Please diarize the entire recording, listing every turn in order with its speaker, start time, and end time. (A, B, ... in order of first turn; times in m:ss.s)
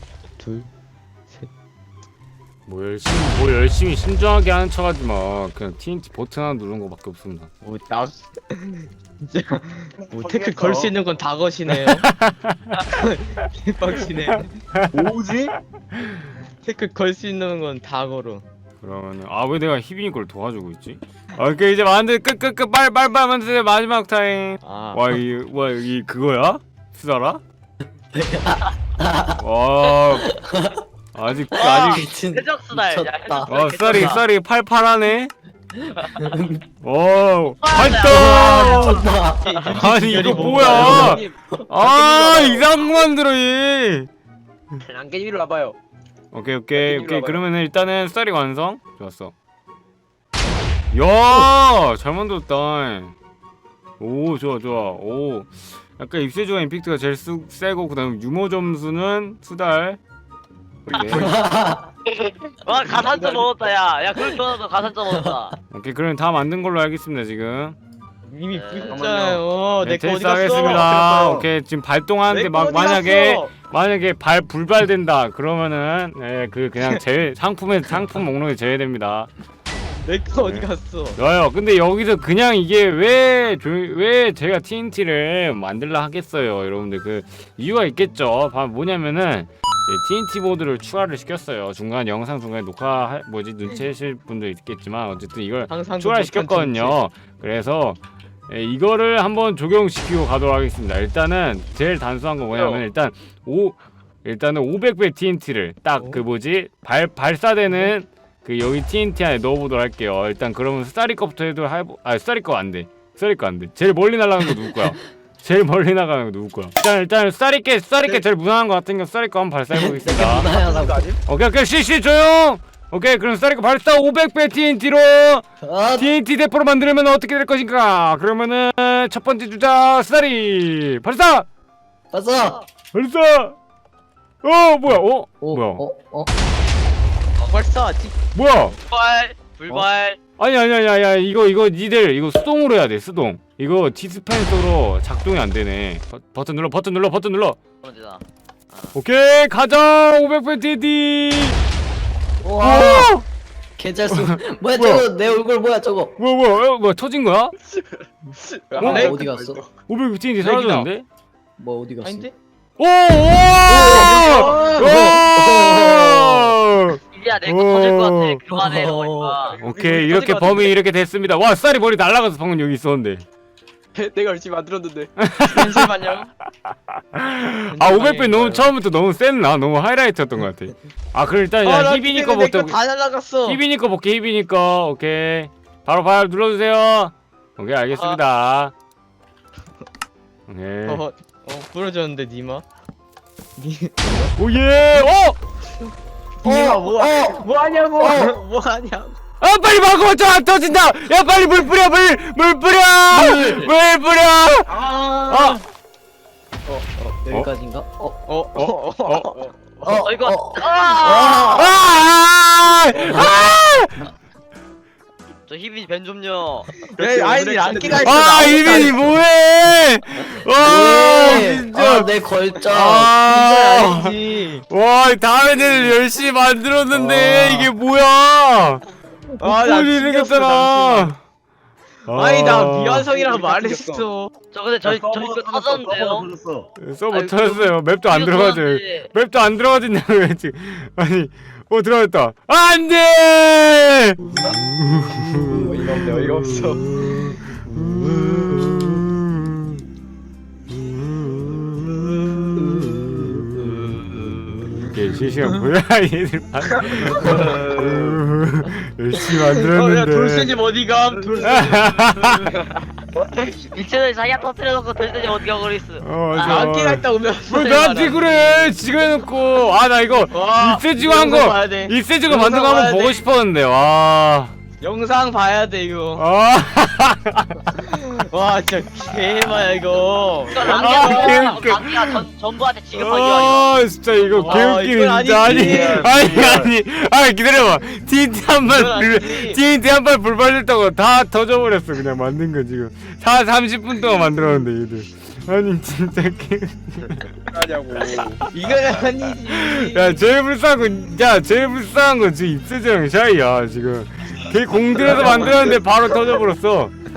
0:00.4-0:00.7 A
0:02.7-0:07.5 B
0:07.6-0:12.1 A
0:10.1-0:10.9 C
0:11.7-0:12.8 B
0:12.9-0:14.6 A
0:14.9-0:15.5 C
0:16.6-0:18.4 A
0:18.8-0:27.4 B
0:24.6-0:25.0 A
0:29.4-0:30.3 B
0:31.1-0:32.1 B
0:31.5-0:34.2 D
0:31.9-0:34.0 E
0:33.4-0:35.3 B
0:36.8-0:39.0 B
0:37.6-0:39.8 D
0:38.1-0:39.3 E
0:39.4-0:41.2 A
0:39.6-0:44.1 B
0:40.2-0:42.7 F
0:44.8-0:45.8 F
0:46.3-0:49.3 B
0:46.8-0:47.4 F
0:50.9-0:53.1 B
0:54.0-1:00.0 B
1:00.9-1:01.5 F
1:00.9-1:01.3 B
1:00.9-1:01.3 D
1:01.5-1:01.8 E
1:02.1-1:05.6 D
1:02.7-1:03.6 F
1:05.7-1:07.8 B
1:08.3-1:10.9 A
1:08.5-1:09.0 D
1:08.9-1:09.4 C
1:09.8-1:19.3 B
1:10.6-1:11.5 C
1:12.3-1:13.5 A
1:20.0-1:21.2 A
1:20.4-2:00.5 B
1:35.7-1:37.0 A
1:42.5-1:42.8 D
1:59.8-2:01.0 E
2:00.4-2:01.1 F
2:01.2-2:11.5 B
2:05.6-2:06.0 E
2:12.1-2:12.6 E
2:12.9-2:13.6 B
2:14.4-2:15.8 B
2:15.4-2:16.3 E
2:17.4-2:18.2 A
2:18.3-2:18.8 B
2:18.9-2:20.2 D
2:20.4-2:27.6 B
2:27.8-2:29.0 D
2:28.9-2:31.6 B
2:32.4-2:33.1 E
2:32.6-2:33.2 B
2:33.8-2:36.1 E
2:34.1-2:35.1 B
2:36.2-2:37.5 B
2:37.7-2:39.7 F
2:38.7-2:39.2 A
2:38.8-2:39.1 B
2:39.0-2:39.6 E
2:39.9-2:41.0 B
2:40.4-2:40.9 A
2:41.6-2:42.2 E
2:42.0-2:42.3 A
2:42.8-2:48.4 B
2:43.7-2:44.1 E
2:43.8-2:44.7 A
2:44.0-2:45.1 F
2:44.9-2:46.5 E
2:47.1-2:49.6 D
2:48.6-2:49.2 E
2:49.2-2:50.7 F
2:49.6-2:53.2 B
2:49.9-2:50.7 A
2:53.9-2:55.1 F
2:55.2-2:55.9 B
2:55.4-2:56.3 A
2:56.6-3:02.8 B
2:57.7-2:58.7 A
3:01.6-3:03.6 A
3:03.4-3:08.7 B
3:10.5-3:11.0 B
3:10.8-3:12.6 A
3:13.6-3:14.3 A
3:14.4-3:15.4 B
3:16.4-3:19.1 A
3:16.5-3:16.9 F
3:16.5-3:17.4 E
3:18.0-3:18.3 E
3:19.4-3:25.6 B
3:23.3-3:23.6 E
3:24.8-3:25.6 A
3:26.7-3:27.2 A
3:27.2-3:28.2 E
3:28.3-3:30.1 A
3:28.5-3:29.3 B
3:29.8-3:31.6 E
3:30.0-3:31.5 D
3:31.1-3:34.1 B
3:35.5-3:36.7 D
3:36.9-3:38.9 F
3:37.0-3:39.1 A
3:38.0-3:42.1 B
3:40.7-3:43.1 E
3:42.6-3:44.2 B
3:42.8-3:44.6 A
3:44.7-3:48.8 B
3:46.9-3:47.7 A
3:49.4-3:51.1 A
3:49.4-3:51.2 B
3:52.0-3:53.1 B
3:52.1-3:54.3 A
3:52.5-3:54.1 F
3:54.5-3:56.3 D
3:54.8-3:56.7 C
3:56.8-4:09.8 B
3:57.1-3:59.1 D
4:05.4-4:06.9 F
4:10.7-4:20.5 B
4:17.1-4:17.7 A
4:17.5-4:18.2 F
4:19.3-4:22.0 A
4:21.2-4:21.6 F
4:21.4-4:22.5 B
4:22.4-4:22.8 D
4:23.7-4:26.7 D
4:26.0-4:34.5 B
4:26.4-4:28.7 A
4:30.3-4:33.2 A
4:34.8-4:36.2 A
4:36.2-4:37.8 B
4:37.8-4:41.5 A
4:40.4-4:44.7 D
4:40.7-4:42.2 B
4:42.9-4:57.3 B
4:44.4-4:46.1 A
4:45.4-4:46.7 C
4:48.6-4:49.6 A
4:57.5-4:58.4 F
4:58.5-5:00.3 A
4:59.5-5:06.9 B